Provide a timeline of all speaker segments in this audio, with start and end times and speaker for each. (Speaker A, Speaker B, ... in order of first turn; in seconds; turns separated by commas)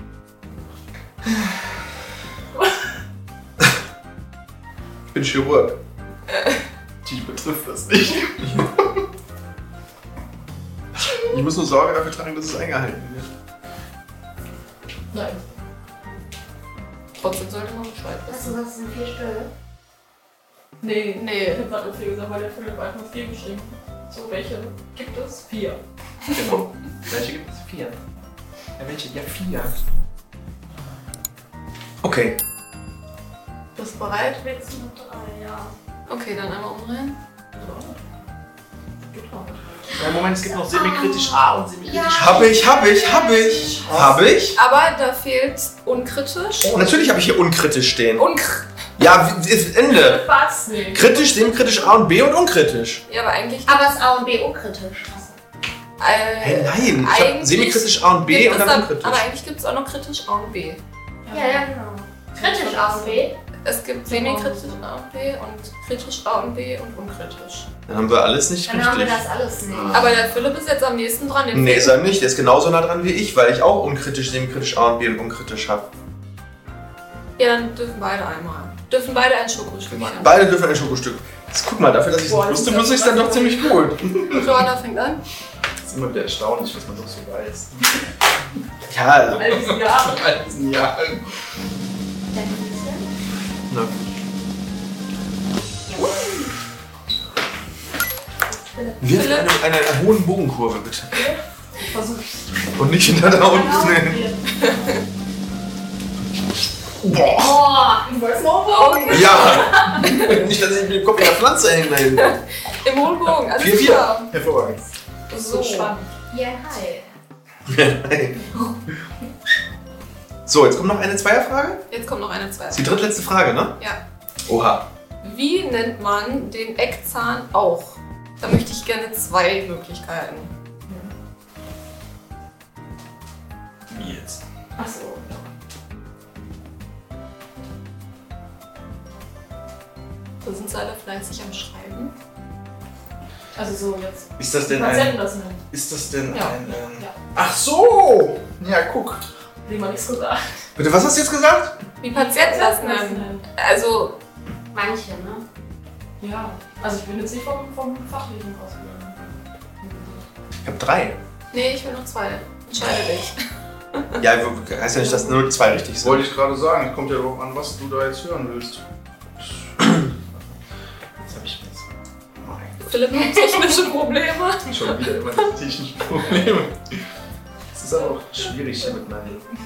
Speaker A: 5.1-5.8, Speaker B: 7.0-8.7, Speaker A: 11.1-13.3, Speaker C: 15.1-15.4, Speaker D: 17.2-18.6, Speaker E: 18.3-19.5, Speaker C: 20.8-25.8, Speaker D: 21.1-21.6, Speaker B: 26.3-28.0, Speaker B: 28.8-29.7, Speaker A: 32.0-32.4, Speaker D: 33.8-34.4, Speaker E: 34.5-35.7, Speaker D: 36.1-37.2, Speaker C: 37.5-38.1, Speaker C: 39.1-40.0, Speaker B: 39.9-42.4, Speaker E: 40.7-43.9, Speaker A: 42.1-44.6, Speaker B: 43.8-44.3, Speaker D: 44.5-46.8, Speaker A: 46.6-48.2, Speaker D: 48.1-48.6, Speaker A: 49.0-50.3, Speaker C: 50.0-51.1, Speaker A: 50.9-53.0, Speaker D: 53.1-54.0, Speaker E: 53.7-55.4, Speaker D: 56.0-60.8, Speaker A: 56.4-59.2, Speaker C: 61.2-61.6, Speaker E: 61.3-63.3, Speaker C: 62.3-63.3, Speaker D: 63.6-67.7, Speaker C: 64.1-64.8, Speaker A: 67.9-69.2, Speaker E: 68.7-70.1, Speaker B: 69.7-70.1, Speaker D: 69.9-72.0, Speaker A: 71.5-75.9, Speaker D: 77.4-80.4, Speaker B: 79.9-80.2, Speaker A: 80.2-84.3, Speaker C: 82.1-83.9, Speaker D: 84.3-85.2, Speaker B: 85.8-87.9, Speaker A: 88.9-89.7, Speaker C: 89.3-90.6, Speaker B: 90.1-91.2, Speaker E: 92.3-93.1, Speaker A: 93.7-94.0, Speaker E: 95.9-96.5, Speaker E: 98.6-99.0, Speaker A: 99.0-101.3, Speaker D: 99.1-99.5, Speaker C: 101.1-102.4, Speaker A: 102.7-104.3, Speaker C: 103.3-104.9, Speaker E: 103.5-104.0, Speaker D: 104.6-104.9, Speaker A: 107.0-107.7, Speaker E: 107.3-108.1, Speaker C: 108.0-110.2, Speaker D: 108.7-110.3, Speaker A: 109.1-112.4, Speaker D: 112.2-114.3, Speaker A: 113.6-114.1, Speaker B: 114.3-114.9, Speaker D: 115.3-115.9, Speaker C: 115.5-116.1, Speaker E: 116.3-117.1, Speaker A: 117.7-118.4, Speaker A: 120.5-121.8, Speaker D: 121.9-123.0, Speaker A: 122.7-123.8, Speaker A: 124.5-124.8, Speaker D: 125.2-130.5, Speaker B: 133.9-134.4, Speaker C: 134.8-135.5, Speaker D: 140.4-142.1, Speaker C: 143.5-145.6, Speaker B: 144.4-149.2, Speaker C: 146.3-147.2, Speaker C: 149.7-150.4, Speaker A: 150.8-151.7, Speaker D: 152.0-154.2, Speaker C: 152.1-153.4, Speaker E: 154.7-155.4, Speaker C: 156.2-160.2, Speaker A: 160.6-161.2, Speaker D: 161.5-163.4, Speaker A: 164.2-166.3, Speaker D: 165.0-165.3, Speaker B: 166.0-168.8, Speaker B: 169.4-170.5, Speaker B: 171.2-172.8, Speaker D: 172.8-175.1, Speaker E: 173.2-173.8, Speaker B: 174.7-176.8, Speaker B: 177.7-179.4